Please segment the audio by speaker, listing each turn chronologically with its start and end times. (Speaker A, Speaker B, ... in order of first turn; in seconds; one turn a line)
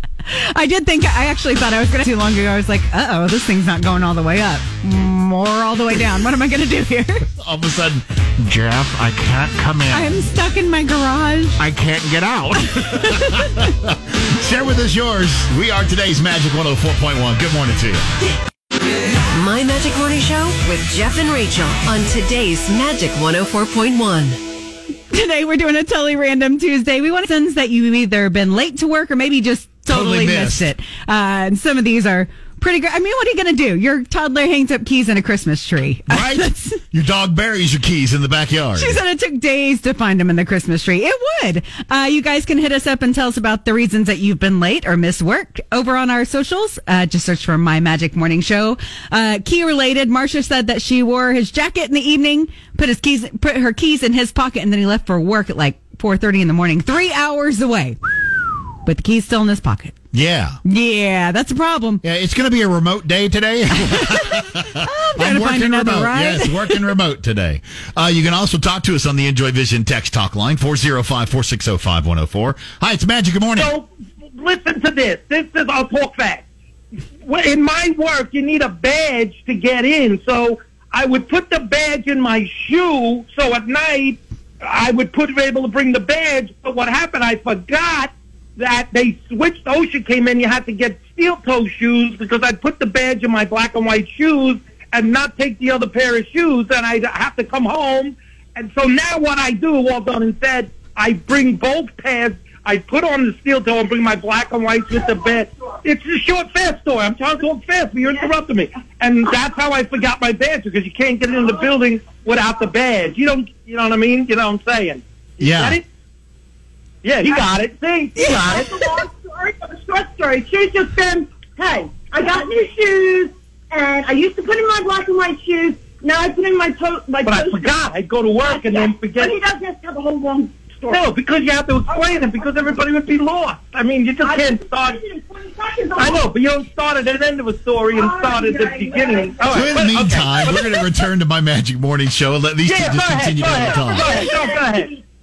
Speaker A: 0.3-7.3
Speaker B: 7.4-10.1
Speaker A: 9.9-11.6
Speaker B: 11.6-18.1
Speaker A: 12.9-13.5
Speaker C: 19.3-24.4
Speaker A: 25.1-36.8
Speaker B: 29.9-30.7
Speaker B: 36.1-39.0
Speaker A: 38.8-58.0
Speaker A: 58.9-60.0
Speaker B: 60.1-60.6
Speaker A: 60.6-62.0
Speaker B: 62.0-73.7
Speaker A: 63.9-66.9
Speaker D: 73.5-76.5
Speaker D: 77.2-115.8
Speaker B: 115.4-115.8
Speaker D: 117.0-118.8
Speaker E: 118.2-127.8
Speaker D: 127.2-129.4
Speaker E: 128.4-131.1
Speaker D: 130.9-135.0
Speaker E: 134.2-136.3
Speaker D: 135.9-140.8
Speaker E: 137.9-139.7
Speaker B: 139.5-144.2
Speaker D: 142.6-144.9
Speaker E: 143.7-145.0